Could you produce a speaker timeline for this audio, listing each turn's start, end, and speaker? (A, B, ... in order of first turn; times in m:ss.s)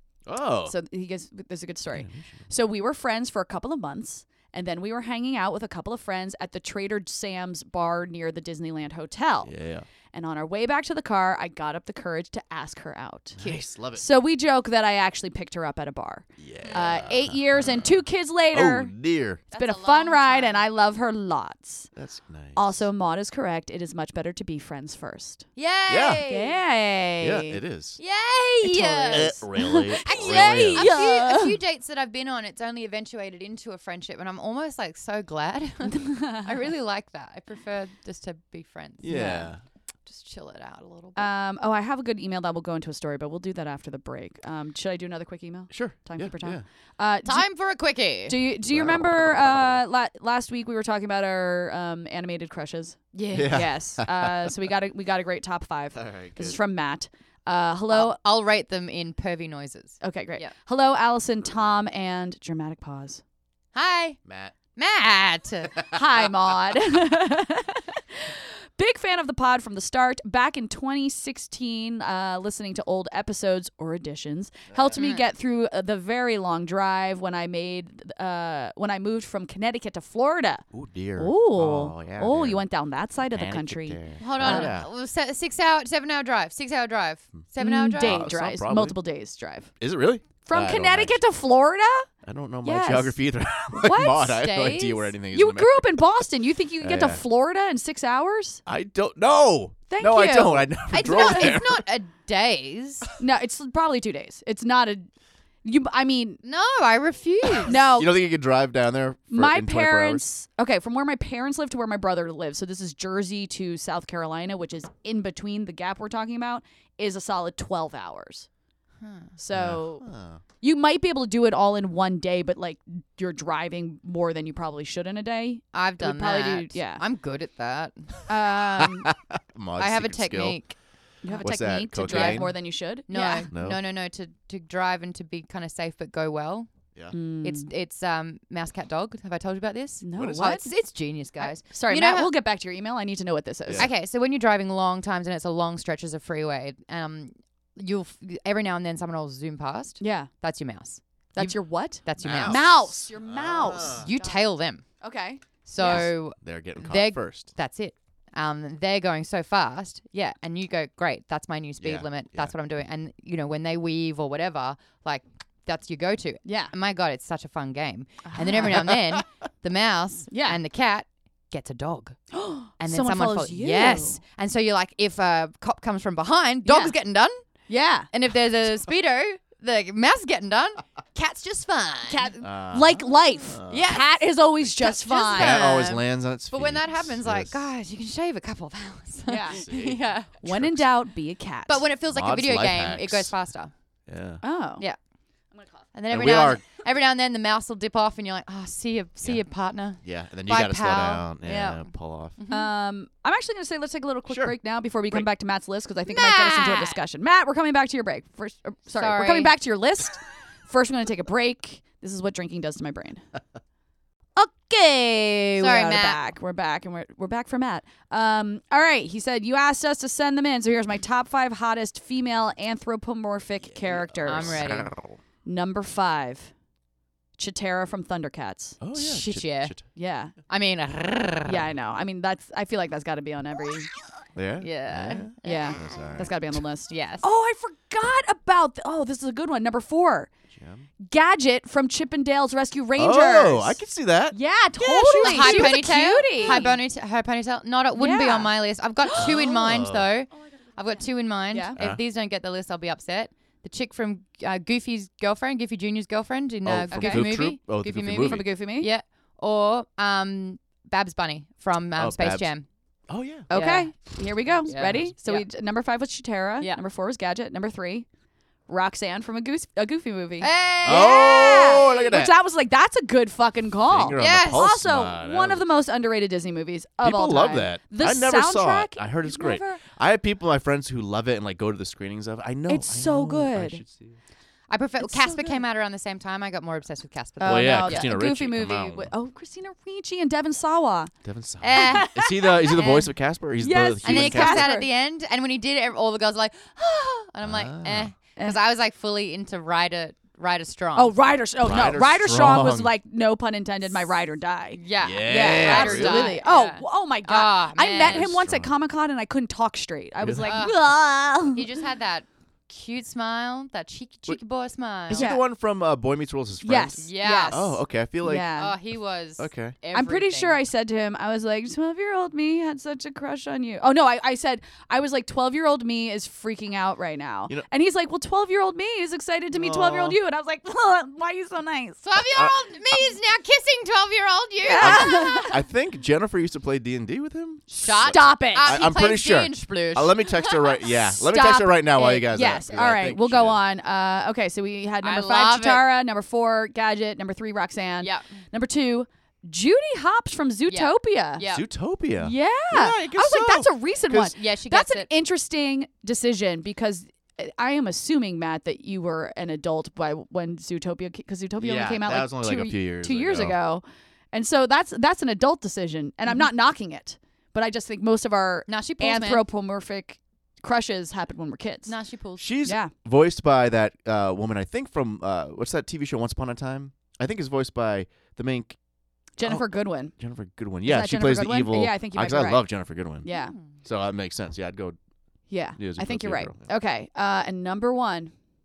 0:00.3-0:00.7 A
0:00.6-0:09.5 B
0:01.9-0:02.4 A
0:09.4-0:09.9 A
0:10.1-0:18.9 B
0:13.4-0:14.0 A
0:16.4-0:18.0 A
0:18.5-0:19.4 A
0:19.5-0:20.6 C
0:19.5-0:21.9 B
0:22.0-0:22.8 A
0:22.6-0:25.4 B
0:25.6-0:26.6 C
0:25.9-0:26.2 A
0:26.3-0:27.6 B
0:27.2-0:28.0 A
0:28.0-0:29.4 C
0:28.6-0:31.6 B
0:29.1-0:30.9 A
0:30.0-0:39.3 C
0:35.8-0:36.5 B
0:39.0-0:39.6 A
0:39.1-0:39.5 B
0:40.0-0:41.3 C
0:41.2-0:47.5 B
0:45.7-0:46.6 A
0:47.2-0:48.4 C
0:48.3-0:58.2 B
0:48.6-0:49.8 A
0:53.3-0:54.6 A
0:55.9-0:56.6 A
0:57.9-1:00.5 C
1:00.0-1:03.2 B
1:03.7-1:04.2 C
1:04.3-1:04.6 A
1:04.8-1:05.8 C
1:05.9-1:20.6 B
1:14.7-1:15.0 A
1:15.0-1:15.3 C
1:20.7-1:22.6 A
1:21.2-1:24.7 B
1:23.3-1:24.9 A
1:24.2-1:28.3 C
1:27.6-1:29.7 B
1:28.0-1:29.0 A
1:29.8-1:31.2 A
1:30.4-1:32.1 B
1:32.2-1:36.0 A
1:32.6-1:33.2 B
1:33.7-1:34.4 B
1:34.4-1:35.1 C
1:35.3-1:38.6 B
1:36.8-1:37.2 A
1:38.6-1:41.8 A
1:39.9-1:41.6 B
1:40.9-1:43.1 C
1:43.2-1:45.1 B
1:45.6-1:46.4 B
1:46.4-1:47.8 C
1:47.7-1:48.1 B
1:47.7-1:50.2 A
1:49.3-1:58.5 B
1:59.0-1:59.3 C
1:59.4-2:00.0 B
1:59.5-2:00.4 A
2:00.6-2:07.0 B
2:05.7-2:08.1 C
2:08.3-2:09.1 B
2:08.7-2:10.6 A
2:09.8-2:10.8 C
2:11.2-2:13.5 B
2:11.4-2:12.6 A
2:12.0-2:12.5 C
2:13.1-2:16.7 C
2:13.5-2:13.8 A
2:17.1-2:17.7 B
2:17.4-2:22.3 C
2:20.0-2:20.7 B
2:20.2-2:20.6 A
2:21.4-2:23.9 B
2:23.7-2:32.7 C
2:30.0-2:30.3 B
2:31.4-2:34.4 B
2:32.2-2:34.1 A
2:33.7-2:34.8 C
2:35.0-2:36.1 B
2:35.6-2:52.2 C
2:35.8-2:37.5 A
2:41.8-2:42.5 A
2:46.4-2:46.7 B
2:48.2-2:48.9 B
2:50.3-2:50.6 B
2:52.3-2:54.2 B
2:52.8-2:57.4 C
2:56.6-2:56.9 B
2:57.7-2:58.1 B
2:58.1-3:02.3 C
3:02.1-3:05.6 B
3:02.4-3:03.9 A
3:03.7-3:10.4 C
3:05.3-3:07.5 A
3:09.3-3:09.6 B
3:09.5-3:10.8 A
3:10.4-3:11.8 B
3:11.7-3:13.7 C
3:12.1-3:13.3 A
3:14.1-3:14.4 A
3:14.4-3:14.8 B
3:15.9-3:22.7 C
3:16.1-3:16.6 A
3:20.0-3:22.4 A
3:22.5-3:33.2 B
3:24.3-3:24.5 A
3:26.1-3:27.0 C
3:28.9-3:29.6 C
3:34.4-3:44.7 B
3:35.6-3:36.2 C
3:43.7-3:45.2 A
3:44.2-3:44.9 C
3:45.4-3:46.5 B
3:47.4-3:48.8 B
3:48.8-3:49.8 A
3:48.9-3:49.8 C
3:49.9-3:50.3 B
3:50.5-3:51.6 C
3:51.4-3:53.9 B
3:54.4-3:56.6 A
3:54.6-3:56.1 C
3:55.4-4:00.3 B
3:56.9-3:57.2 C
4:00.5-4:00.8 A
4:01.0-4:03.8 B
4:03.0-4:05.9 A
4:04.3-4:06.8 B
4:05.2-4:22.6 C
4:08.0-4:09.4 B
4:09.2-4:10.1 A
4:11.5-4:11.8 B
4:11.8-4:12.0 A
4:16.6-4:18.5 A
4:16.9-4:17.2 B
4:18.2-4:18.9 B
4:22.0-4:22.5 A
4:23.1-4:23.5 A
4:23.5-4:28.1 B
4:23.5-4:23.9 C
4:24.6-4:25.4 C
4:28.7-4:39.8 B
4:30.4-4:32.1 C
4:30.8-4:32.3 A
4:33.8-4:35.7 A
4:34.2-4:34.7 C
4:37.0-4:44.2 A
4:42.7-4:43.8 B
4:44.7-4:48.1 C
4:45.0-4:45.6 B
4:47.4-4:51.1 B
4:47.4-4:49.1 A
4:51.2-4:54.7 A
4:51.6-4:53.1 C
4:51.7-4:53.0 B
4:53.6-4:54.9 B
4:54.0-5:01.2 C
4:57.4-4:58.1 A
5:00.9-5:11.7 B
5:01.6-5:02.9 A
5:04.7-5:08.2 C
5:05.0-5:06.4 A
5:08.0-5:08.7 A
5:10.2-5:10.6 A
5:10.4-5:15.3 C
5:15.1-5:18.5 A
5:15.1-5:15.4 B
5:16.6-5:18.7 B
5:17.0-5:17.8 C
5:18.5-5:20.6 C
5:19.4-5:19.8 A
5:19.9-5:32.0 B
5:29.5-5:30.2 A
5:32.0-5:35.5 C
5:32.2-5:32.5 A
5:34.6-5:35.6 B
5:34.8-5:43.6 A
5:37.7-5:40.8 C
5:38.1-5:38.8 B
5:41.2-5:51.4 B
5:45.0-5:45.9 C
5:48.0-5:48.3 C
5:50.7-5:51.6 C
5:51.4-5:54.2 A
5:52.2-6:11.9 B
5:54.1-5:55.1 C
6:01.6-6:03.6 A
6:08.7-6:09.4 C
6:11.8-6:12.4 C
6:12.4-6:18.8 A
6:12.6-6:12.9 B
6:19.4-6:20.1 B
6:19.4-6:23.2 A
6:20.8-6:22.7 B
6:23.2-6:23.5 B
6:23.3-6:23.7 C
6:23.8-6:25.0 A
6:25.5-6:28.3 B
6:25.8-6:26.7 A